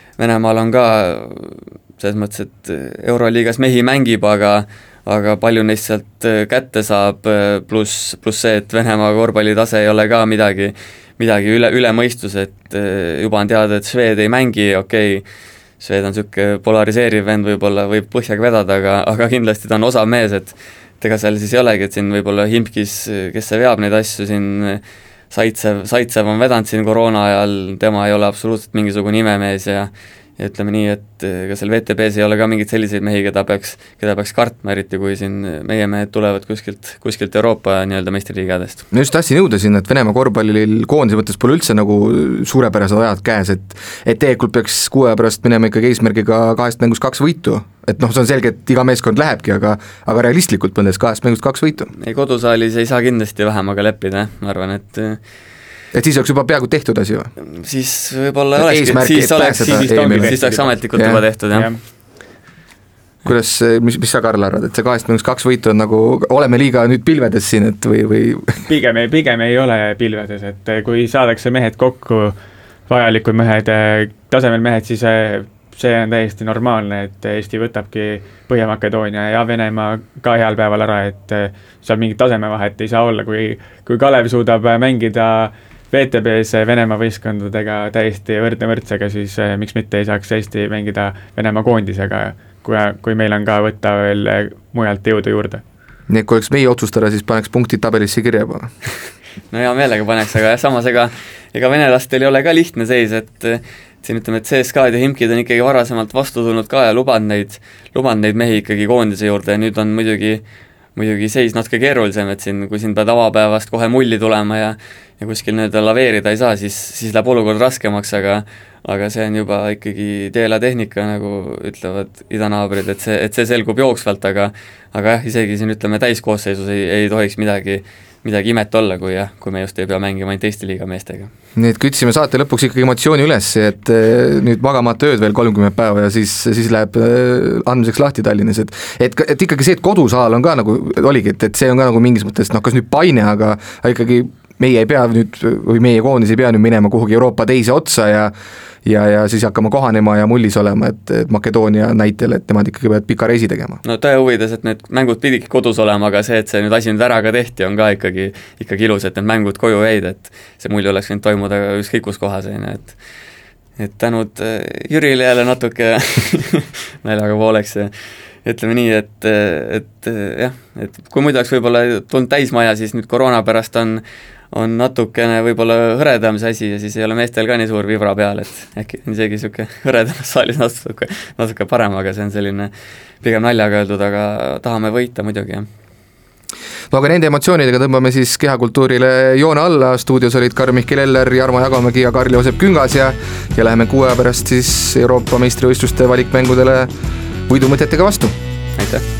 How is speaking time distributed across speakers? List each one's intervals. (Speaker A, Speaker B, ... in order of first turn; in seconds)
Speaker A: 0.2-15.2, 15.8-38.8, 51.9-55.2, 57.5-61.7, 99.5-110.4, 111.0-131.3, 153.8-162.9, 163.8-167.9, 168.4-182.7, 183.2-185.7, 198.8-199.0
Speaker B: 38.9-51.9, 55.9-57.3, 58.6-60.4, 60.9-61.2, 63.2-68.6, 96.1-98.7, 131.6-148.3, 148.8-153.8, 186.9-196.9, 197.5-198.3
Speaker C: 59.4-60.8, 61.5-61.8, 68.7-72.3, 72.9-95.6